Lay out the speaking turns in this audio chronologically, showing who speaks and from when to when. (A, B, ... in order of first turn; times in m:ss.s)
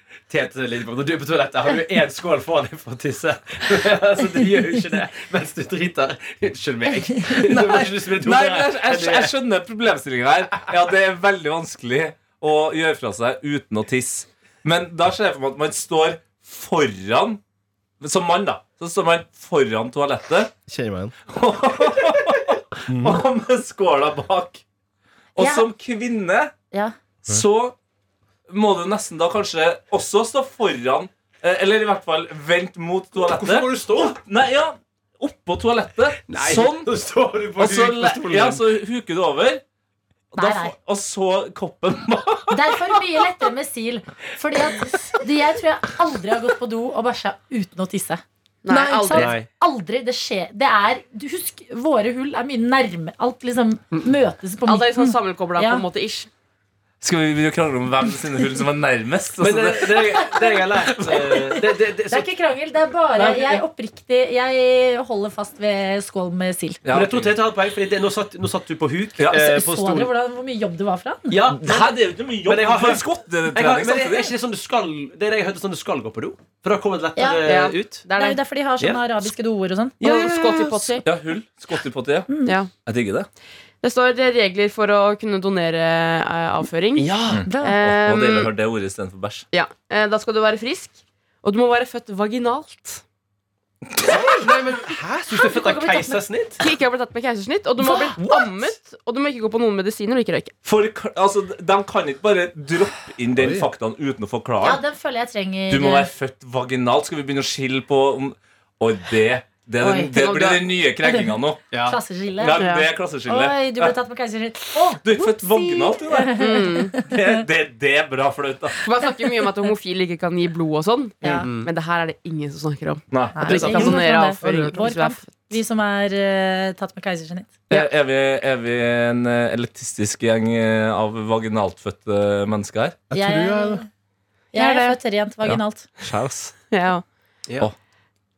0:00.3-0:09.3 A
0:07.3-0:17.4 B
0:18.0-0:20.5 B
0:20.7-0:21.2 C
0:21.3-0:24.6 B
0:22.9-0:23.2 C
0:25.4-0:26.5 B
0:25.4-0:25.7 D
0:27.2-0:27.8 B
0:28.5-0:36.9 B
0:33.1-0:34.2 A
0:36.3-0:38.6 A
0:37.6-0:39.6 B
0:40.3-0:42.9 B
0:40.4-0:40.7 D
0:42.5-0:55.8 D
0:48.6-0:49.4 E
0:49.1-0:49.5 A
0:54.7-0:56.3 E
0:57.0-1:01.8 B
0:59.4-1:02.3 A
1:02.1-1:06.8 D
1:03.2-1:03.6 A
1:06.8-1:07.4 B
1:06.9-1:10.1 A
1:09.2-1:09.6 B
1:09.3-1:11.4 D
1:11.3-1:18.0 A
1:11.6-1:14.3 B
1:17.2-1:21.0 D
1:17.4-1:18.4 E
1:20.0-1:20.8 A
1:20.0-1:21.0 E
1:21.0-1:23.3 B
1:22.3-1:22.6 D
1:22.4-1:22.7 E
1:23.8-1:28.5 E
1:27.0-1:27.4 A
1:27.3-1:29.4 B
1:27.4-1:27.8 D
1:29.5-1:33.0 E
1:34.1-1:36.6 A
1:35.5-1:36.2 D
1:36.6-1:40.5 E
1:37.8-1:38.7 D
1:40.6-1:44.8 B
1:43.4-1:43.7 C
1:44.6-1:46.1 D
1:45.7-1:51.6 B
1:49.8-1:50.2 D
1:50.1-1:50.6 E
1:51.0-1:52.7 D
1:51.7-1:52.0 A
1:52.4-1:53.9 B
1:52.6-1:52.9 E
1:53.3-1:57.4 D
1:55.0-1:56.4 B
1:56.4-1:56.9 E
1:57.0-1:58.8 B
1:58.8-2:05.5 E
1:59.0-1:59.5 D
2:01.2-2:01.5 D
2:01.2-2:01.7 A
2:03.1-2:04.0 B
2:03.4-2:07.6 D
2:07.7-2:13.0 B
2:13.1-2:13.8 C
2:13.1-2:13.8 D
2:14.5-2:15.8 D
2:14.5-2:15.0 E
2:15.4-2:16.5 B
2:16.7-2:17.0 E